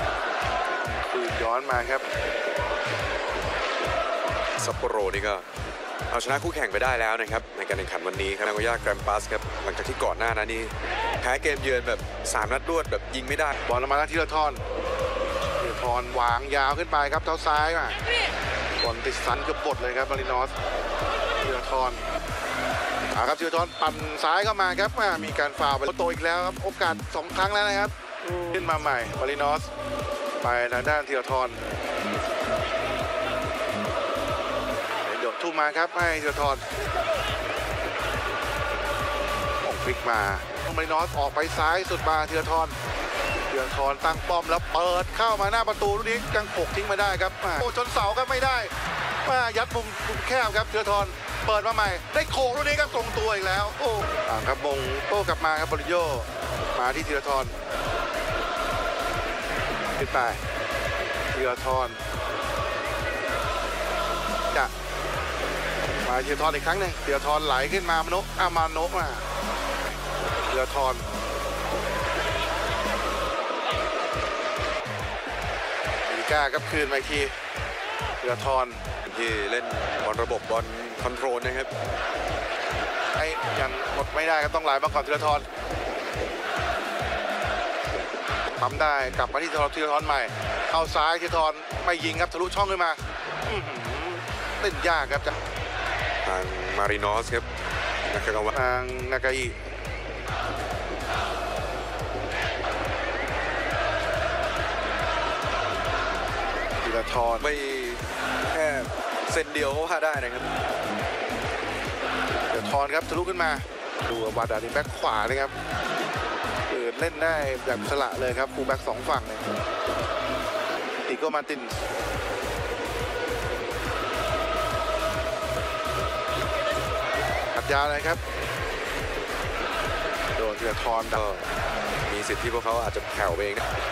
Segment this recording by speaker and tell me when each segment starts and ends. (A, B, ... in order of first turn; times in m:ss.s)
0:01.1-0:02.0 A
0:04.6-0:05.4 B
0:06.1-0:13.6 B
0:13.6-0:14.6 A
0:15.6-0:18.0 A
0:18.8-0:20.5 A
0:21.4-0:22.0 A
0:23.1-0:29.7 A
0:30.4-0:31.6 A
0:35.0-0:36.6 A
0:39.6-0:42.7 A
0:43.5-0:48.7 A
0:49.2-0:57.5 A
1:00.0-1:00.4 A
1:01.3-1:02.0 A
1:06.0-1:09.2 A
1:10.5-1:11.1 A
1:16.0-1:17.4 A
1:18.2-1:18.8 A
1:19.0-1:21.7 B
1:23.2-1:25.4 A
1:28.6-1:35.4 A
1:36.2-1:37.4 B
1:38.1-1:38.6 B
1:38.5-1:39.6 A
1:46.8-1:47.5 A
1:47.4-1:50.5 B
1:52.5-1:55.5 A
1:56.7-1:59.4 A
2:01.1-2:01.8 A
2:07.5-2:08.2 A
2:10.4-2:11.2 A
2:11.1-2:11.5 B
2:12.1-2:13.6 B